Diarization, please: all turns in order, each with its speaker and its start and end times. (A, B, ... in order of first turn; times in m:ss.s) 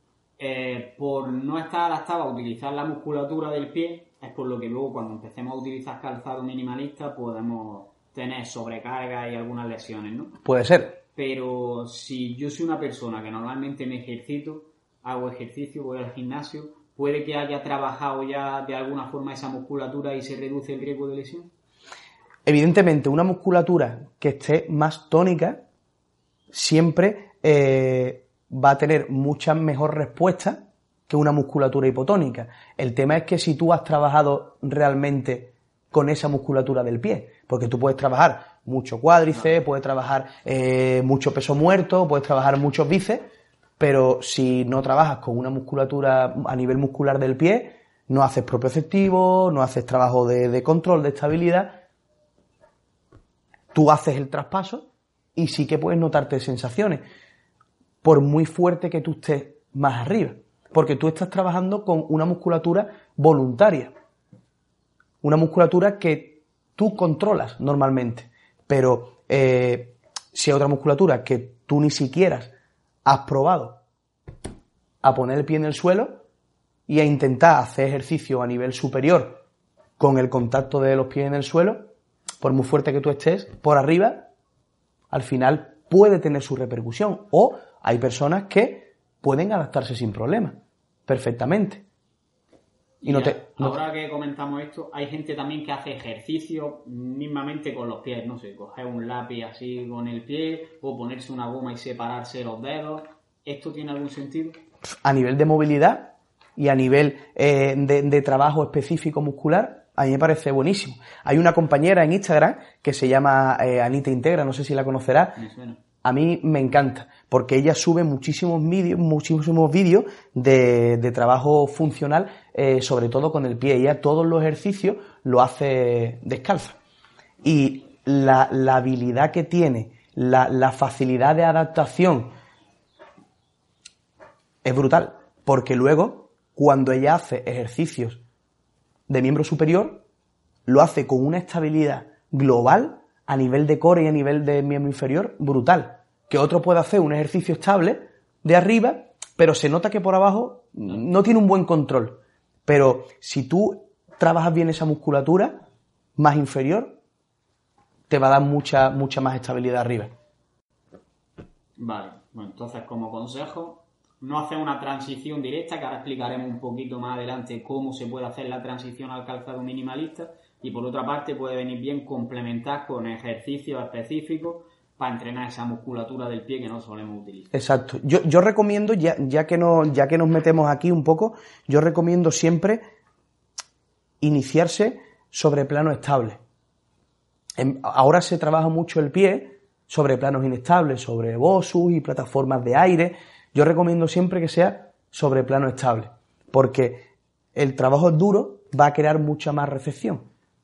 0:00.4-0:10.4 A
0:10.4-0:11.0 B
0:11.2-0:21.5 A
0:22.4-0:25.6 B
0:26.5-0:43.3 B
0:43.8-0:51.8 B
0:53.7-0:57.0 B
0:58.0-1:03.9 B
1:05.2-1:12.5 B
1:13.0-1:13.8 B
1:15.0-1:16.2 B
1:16.9-1:19.4 B
1:20.0-1:21.9 B
1:22.4-1:24.3 B
1:25.1-1:31.8 B
1:33.0-1:44.6 A
1:33.0-1:33.8 B
1:45.0-1:55.4 B
1:55.4-1:55.8 A
1:56.0-2:06.8 B
2:07.4-2:12.3 B
2:14.6-2:18.2 B
2:19.1-2:20.0 B
2:20.7-2:35.6 B
2:36.2-2:37.0 B
2:38.1-2:40.1 B
2:41.8-2:57.5 A
2:57.5-3:02.8 B
3:04.2-3:06.4 B
3:07.6-3:20.3 B